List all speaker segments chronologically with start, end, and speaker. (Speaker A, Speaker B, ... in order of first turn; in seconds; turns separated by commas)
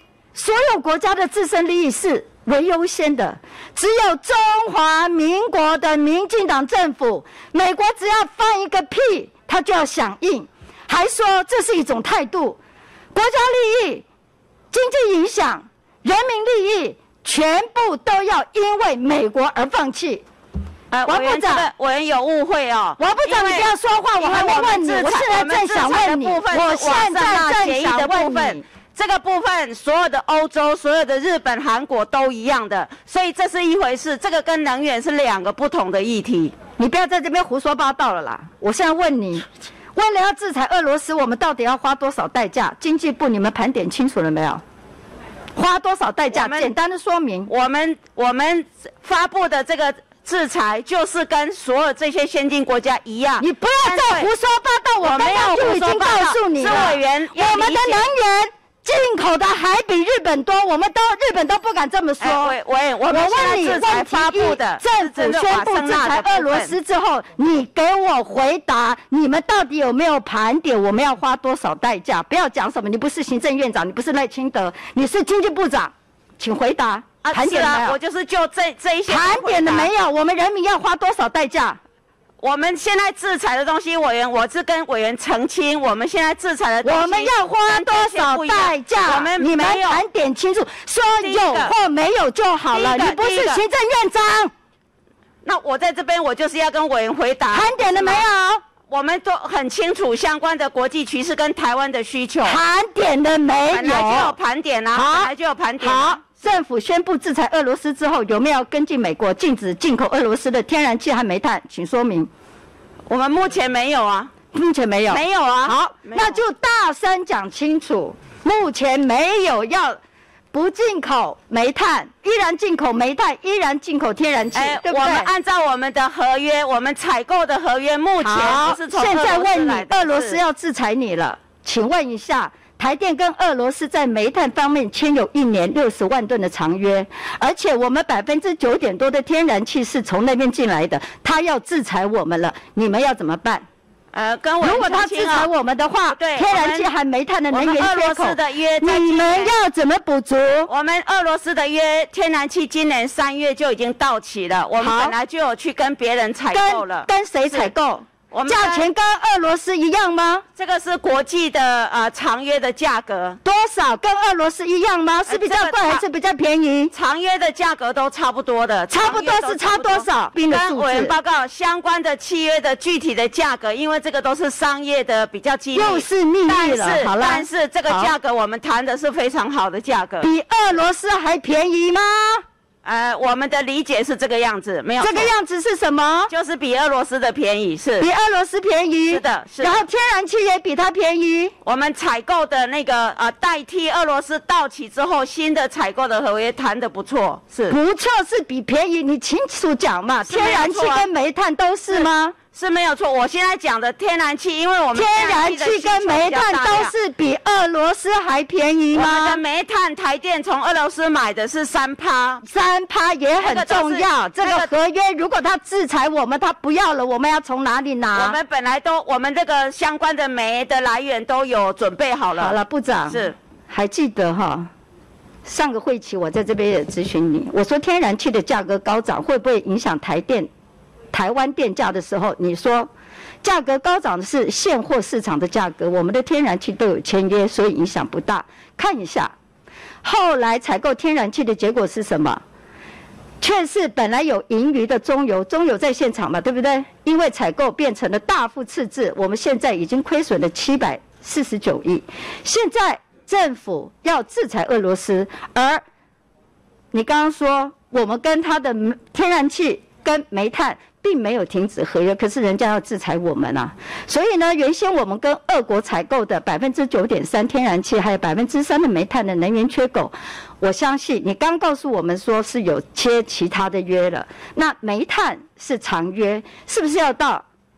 Speaker A: 0.3-12.6, Speaker A: 13.1-14.1, Speaker A: 14.7-20.2, Speaker B: 20.9-36.6, Speaker A: 21.1-21.7, Speaker A: 23.0-28.6, Speaker A: 36.8-44.6, Speaker A: 45.5-47.5, Speaker B: 46.3-46.7, Speaker B: 47.5-54.3, Speaker A: 53.4-78.0, Speaker B: 55.0-58.1, Speaker B: 62.2-66.7, Speaker B: 77.2-79.9, Speaker A: 79.1-81.8, Speaker B: 82.4-90.0, Speaker A: 86.8-94.5, Speaker B: 91.2-91.8, Speaker B: 92.7-93.6, Speaker B: 95.5-98.3, Speaker A: 97.5-98.6, Speaker B: 98.9-102.6, Speaker A: 102.4-104.4, Speaker B: 103.7-106.2, Speaker A: 104.9-112.3, Speaker B: 113.1-114.3, Speaker A: 114.5-120.0, Speaker B: 115.1-116.4, Speaker A: 120.5-125.3, Speaker B: 124.5-130.4, Speaker A: 128.2-143.7, Speaker B: 144.1-145.5, Speaker A: 144.6-150.7, Speaker B: 146.1-146.9, Speaker B: 147.5-149.5, Speaker B: 150.7-157.7, Speaker A: 154.8-155.2, Speaker A: 156.5-160.4, Speaker B: 158.3-158.9, Speaker B: 160.6-163.4, Speaker A: 163.4-166.9, Speaker B: 165.3-166.0, Speaker B: 166.9-180.3, Speaker A: 168.9-171.2, Speaker A: 175.7-178.2, Speaker A: 180.2-182.4, Speaker B: 182.8-185.3, Speaker A: 185.0-186.3, Speaker B: 186.3-188.1, Speaker A: 188.0-191.5, Speaker B: 189.1-189.8, Speaker B: 191.6-197.8, Speaker A: 197.7-202.4, Speaker B: 200.2-201.1, Speaker B: 201.9-206.9, Speaker A: 204.9-209.4, Speaker B: 208.9-212.4, Speaker A: 212.4-218.4, Speaker B: 213.4-214.7, Speaker B: 218.1-222.6, Speaker A: 222.3-224.7, Speaker B: 223.1-223.3, Speaker A: 225.4-230.5, Speaker A: 231.1-232.9, Speaker A: 233.4-239.3, Speaker A: 240.0-242.4, Speaker A: 243.4-255.8, Speaker A: 256.9-277.4